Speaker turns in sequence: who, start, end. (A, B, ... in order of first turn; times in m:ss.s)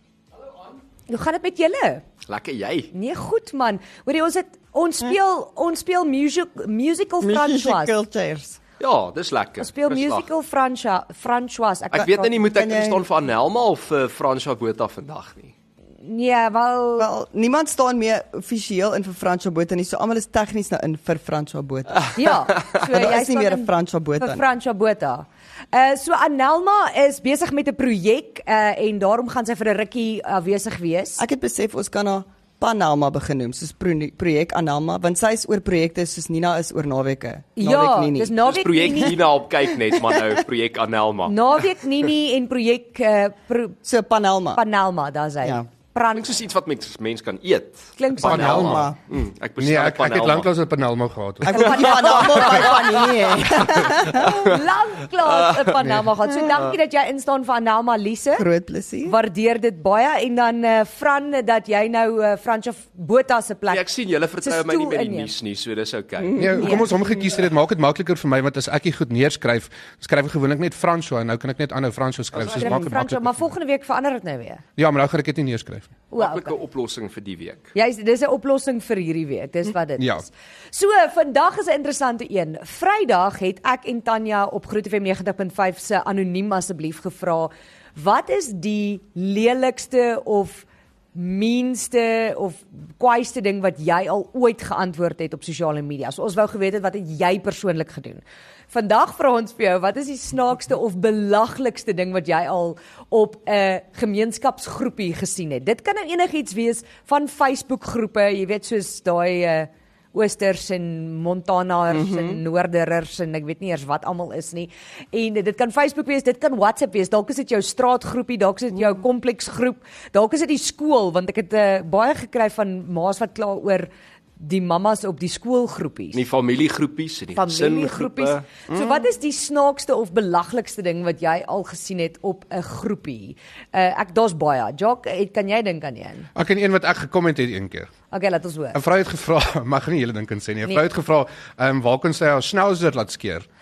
0:01.1-0:02.0 A
0:02.2-0:02.9 B
0:02.9-0:07.9 A
0:07.2-0:08.6 C
0:08.8-0:10.3 B
0:09.6-0:12.5 A
0:11.9-0:15.5 B
0:11.9-0:13.0 C
0:16.0-0:17.1 A
0:17.0-0:24.4 C
0:22.1-0:22.7 B
0:22.1-0:31.2 A
0:31.2-0:38.3 C
0:37.6-0:39.2 A
0:38.4-0:41.5 B
0:40.0-0:40.3 C
0:41.2-0:43.8 A
0:43.8-0:44.6 C
0:44.5-0:46.4 A
0:46.1-0:50.5 B
0:48.0-0:48.6 A
0:48.2-0:48.9 D
0:48.3-0:49.0 C
0:49.6-0:51.7 D
0:51.4-0:54.5 C
0:51.5-0:52.8 A
0:51.9-0:54.6 B
0:54.0-0:58.5 A
0:55.2-0:55.9 B
0:58.4-0:59.2 C
0:59.0-1:03.8 A
1:03.7-1:06.4 B
1:04.4-1:05.3 A
1:06.2-1:07.0 C
1:06.4-1:13.5 D
1:06.6-1:06.9 A
1:12.3-1:12.7 B
1:12.4-1:14.6 A
1:14.8-1:15.9 D
1:16.1-1:16.5 A
1:16.2-1:17.7 B
1:17.7-2:06.2 A
1:20.0-1:20.2 D
1:51.9-1:52.4 C
2:06.1-2:08.4 B
2:07.3-2:16.3 A
2:08.7-2:09.0 C
2:16.3-2:17.9 D
2:18.1-2:18.8 A
2:18.7-2:23.4 D